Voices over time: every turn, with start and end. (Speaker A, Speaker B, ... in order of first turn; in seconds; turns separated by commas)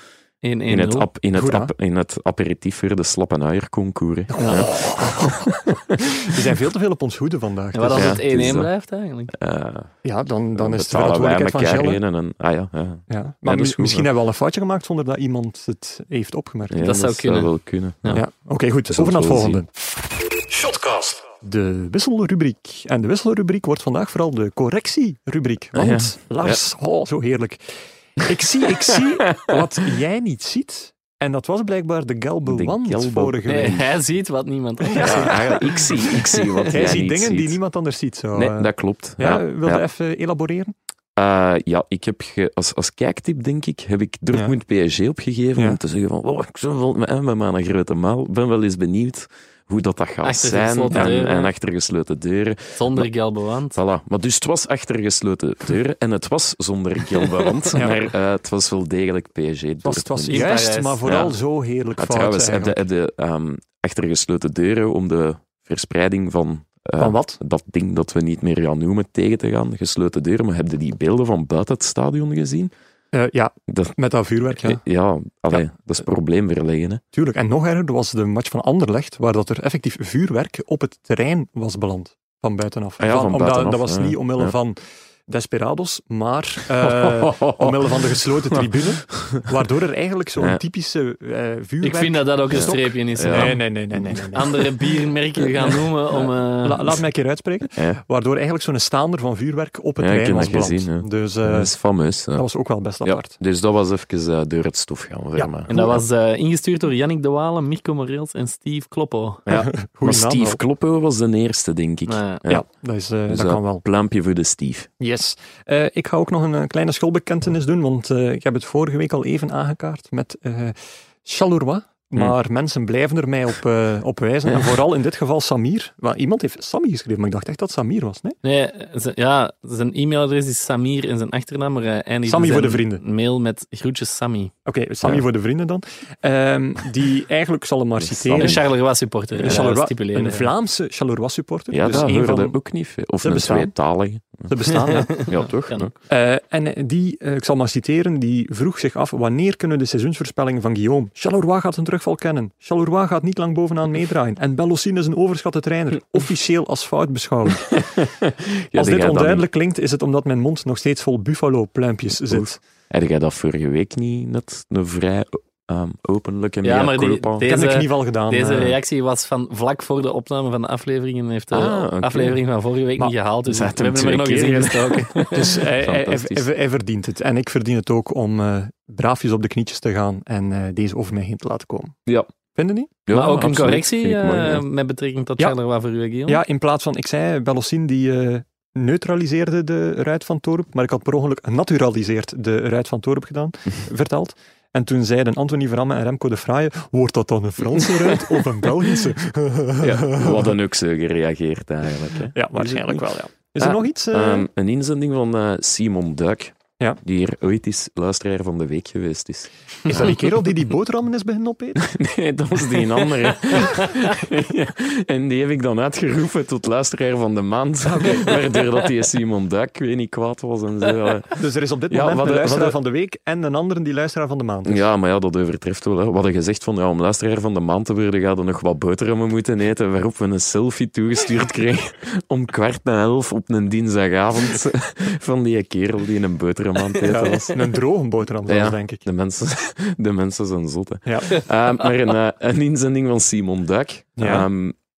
Speaker A: 0.4-1.1, Speaker B: 0.7-5.5, Speaker C: 1.3-1.7, Speaker C: 4.3-8.2, Speaker A: 7.7-9.3, Speaker B: 7.9-8.7, Speaker B: 9.3-9.9, Speaker C: 10.0-12.0, Speaker B: 10.6-14.1, Speaker C: 13.1-16.8, Speaker B: 16.7-18.2, Speaker A: 16.8-18.2, Speaker C: 18.1-19.7, Speaker B: 18.9-19.6, Speaker C: 21.4-33.9, Speaker B: 25.7-26.6, Speaker B: 32.4-33.9, Speaker A: 33.5-36.7, Speaker C: 34.8-35.8, Speaker B: 35.0-37.6, Speaker C: 36.7-40.7, Speaker B: 38.3-39.8, Speaker B: 41.1-53.1, Speaker A: 50.2-51.5, Speaker A: 52.8-53.8, Speaker B: 53.7-60.5, Speaker C: 59.8-62.8, Speaker A: 60.3-61.3, Speaker B: 61.0-61.3, Speaker B: 62.0-72.7, Speaker C: 67.0-67.4, Speaker C: 73.1-74.8, Speaker B: 73.7-73.9, Speaker B: 74.6-77.0, Speaker C: 77.1-94.7, Speaker B: 83.0-84.5, Speaker B: 86.8-89.5, Speaker A: 91.8-93.7, Speaker B: 92.5-93.6, Speaker A: 94.3-97.0, Speaker B: 95.4-95.8, Speaker C: 96.6-101.7, Speaker B: 97.7-98.0, Speaker B: 100.0-102.4, Speaker C: 102.3-103.3, Speaker B: 103.0-106.0, Speaker C: 105.3-106.0, Speaker A: 105.7-109.4, Speaker B: 109.5-112.6, Speaker C: 109.5-110.6, Speaker A: 112.1-112.4, Speaker C: 112.5-113.8, Speaker B: 113.3-114.9, Speaker C: 115.0-128.4, Speaker B: 124.5-124.8, Speaker A: 128.4-134.5, Speaker C: 132.2-133.0, Speaker C: 134.7-138.6, Speaker B: 138.0-138.6, Speaker A: 138.4-140.5, Speaker C: 139.4-142.6, Speaker B: 141.7-144.5, Speaker C: 143.2-143.7, Speaker C: 144.5-145.3, Speaker A: 145.0-145.9, Speaker B: 145.1-145.9, Speaker C: 146.1-157.8, Speaker B: 157.7-159.5, Speaker C: 158.7-162.6, Speaker B: 162.3-167.5, Speaker A: 166.6-175.6, Speaker C: 167.5-168.8, Speaker B: 171.5-172.4, Speaker B: 173.4-176.5, Speaker C: 175.3-181.9, Speaker C: 182.5-182.9, Speaker B: 183.1-184.6, Speaker A: 183.1-186.4, Speaker C: 186.3-200.5, Speaker B: 199.8-203.0, Speaker C: 202.3-204.5, Speaker B: 203.6-210.3, Speaker C: 209.8-211.8, Speaker B: 211.8-221.4, Speaker C: 217.8-218.4, Speaker C: 221.3-224.8, Speaker B: 221.9-222.8, Speaker B: 224.6-237.8, Speaker C: 237.0-239.0, Speaker B: 238.5-244.8, Speaker C: 241.1-241.4, Speaker C: 244.2-244.5